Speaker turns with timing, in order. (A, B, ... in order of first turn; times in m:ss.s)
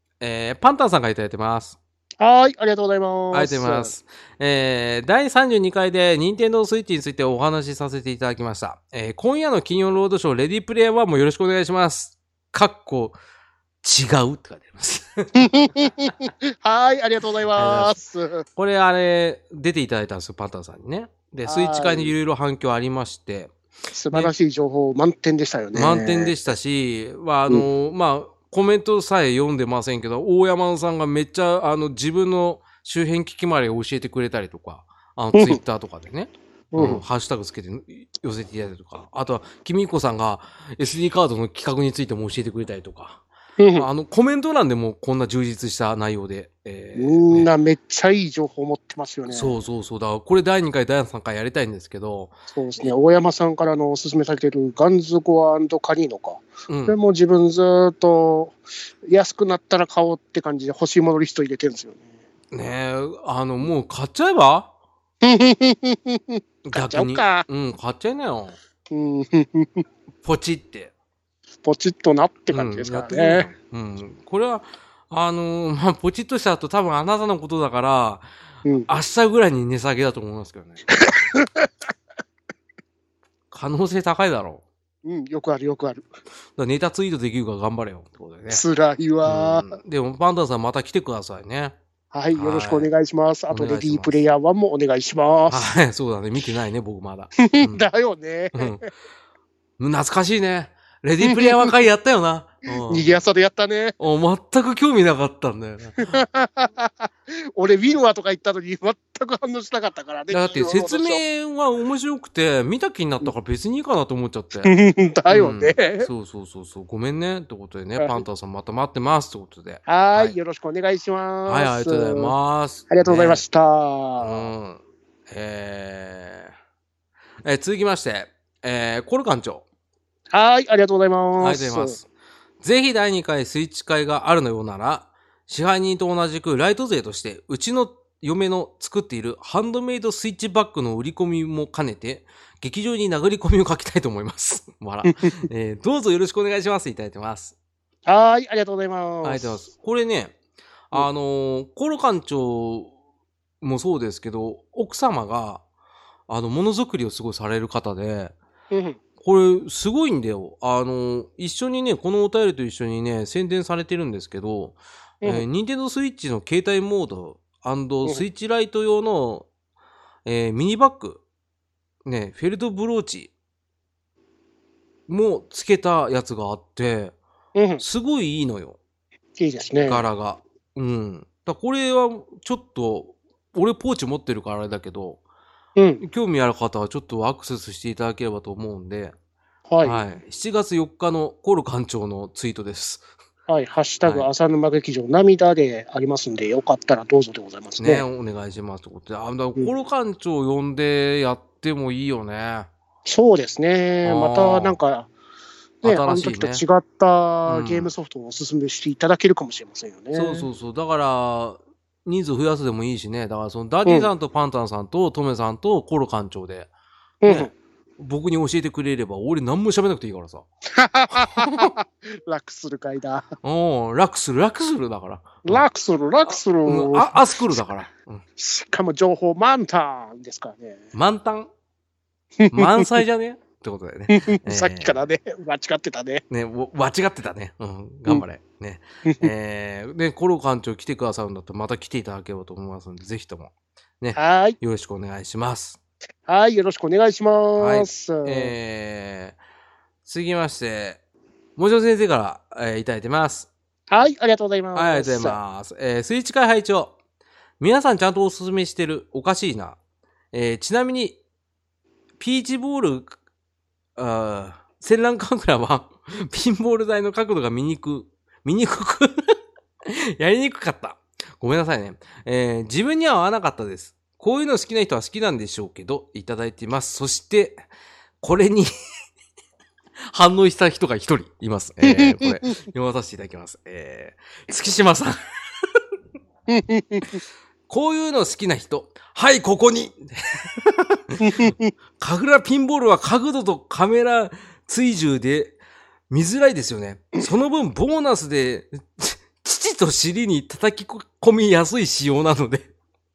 0:00.2-0:01.8 A
0:02.2-0:03.9 B
0:03.3-0:13.2 A
0:13.8-0:15.5 A
0:15.4-0:18.4 B
0:17.6-0:18.0 A
0:18.6-0:23.5 A
0:21.5-0:22.1 B
0:23.9-0:26.4 B
0:25.7-0:43.2 A
0:35.3-0:35.6 B
0:36.7-0:37.0 B
0:43.6-0:43.9 B
0:43.8-0:47.5 A
0:47.0-0:49.6 B
0:49.3-0:52.4 A
0:52.5-1:02.1 B
0:56.7-0:57.0 A
1:02.5-1:04.7 A
1:05.2-1:07.5 B
1:06.6-1:08.6 A
1:08.9-1:09.8 B
1:10.2-1:10.9 A
1:11.6-1:13.5 B
1:12.5-1:18.3 A
1:18.9-1:20.8 A
1:20.9-1:21.7 B
1:23.5-1:24.6 A
1:25.0-1:26.1 B
1:26.6-1:28.6 A
1:28.5-1:29.7 B
1:29.2-1:31.8 A
1:32.1-1:35.7 B
1:32.3-1:32.9 A
1:33.5-1:34.2 A
1:35.5-1:37.8 A
1:37.4-1:38.8 B
1:38.5-1:38.9 A
1:39.8-1:43.1 A
1:41.2-1:41.7 B
1:42.9-1:44.0 B
1:44.0-1:46.2 A
1:46.0-1:51.2 B
1:50.3-1:54.7 A
1:54.6-1:56.1 B
1:55.3-2:00.4 A
1:58.0-1:58.2 B
1:59.9-2:02.3 B
2:01.5-2:03.4 A
2:02.9-2:04.5 B
2:04.2-2:06.5 A
2:07.4-2:09.6 A
2:10.3-2:12.0 B
2:11.4-2:12.1 A
2:12.6-2:27.6 A
2:28.1-2:29.6 B
2:29.2-2:30.4 A
2:30.9-2:32.9 A
2:33.6-2:35.6 A
2:36.3-2:38.4 A
2:38.7-2:39.0 B
2:39.2-2:49.5 A
2:50.2-2:51.2 A
2:52.0-2:53.3 A
2:55.1-2:57.2 A
2:57.6-2:57.8 B
2:57.8-2:58.8 A
2:59.4-3:00.0 B
2:59.8-3:05.2 A
3:05.8-3:06.0 B
3:06.0-3:09.2 A
3:09.7-3:10.0 B
3:09.8-3:13.0 A
3:13.5-3:18.0 B
3:17.8-3:22.7 A
3:23.1-3:25.1 B
3:24.0-3:24.8 A
3:25.8-3:26.6 A
3:25.8-3:30.5 B
3:27.5-3:27.9 A
3:30.1-3:36.7 A
3:37.2-3:37.5 B
3:37.2-3:40.5 A
3:40.7-3:43.3 B
3:41.1-3:41.7 A
3:43.4-3:45.7 A
3:45.4-3:47.2 B
3:46.6-3:48.2 A
3:48.4-3:50.8 B
3:50.9-3:51.5 A
3:52.4-3:52.9 B
3:52.5-3:55.0 A
3:54.1-3:56.2 B
3:56.3-4:05.8 A
3:59.0-3:59.3 B
4:04.2-4:04.6 B
4:06.3-4:08.6 B
4:07.6-4:09.4 A
4:10.0-4:11.0 A
4:11.6-4:13.5 A
4:13.9-4:15.4 B
4:14.8-4:16.9 A
4:17.6-4:19.8 A
4:20.3-4:21.2 A
4:22.2-4:23.2 A
4:24.0-4:29.3 A
4:29.9-4:37.6 A
4:38.2-4:38.7 A
4:40.1-4:45.2 A
4:41.8-4:42.4 B
4:46.5-4:47.2 B
4:47.7-4:55.6 A
4:51.2-4:51.7 B
4:56.1-5:02.7 A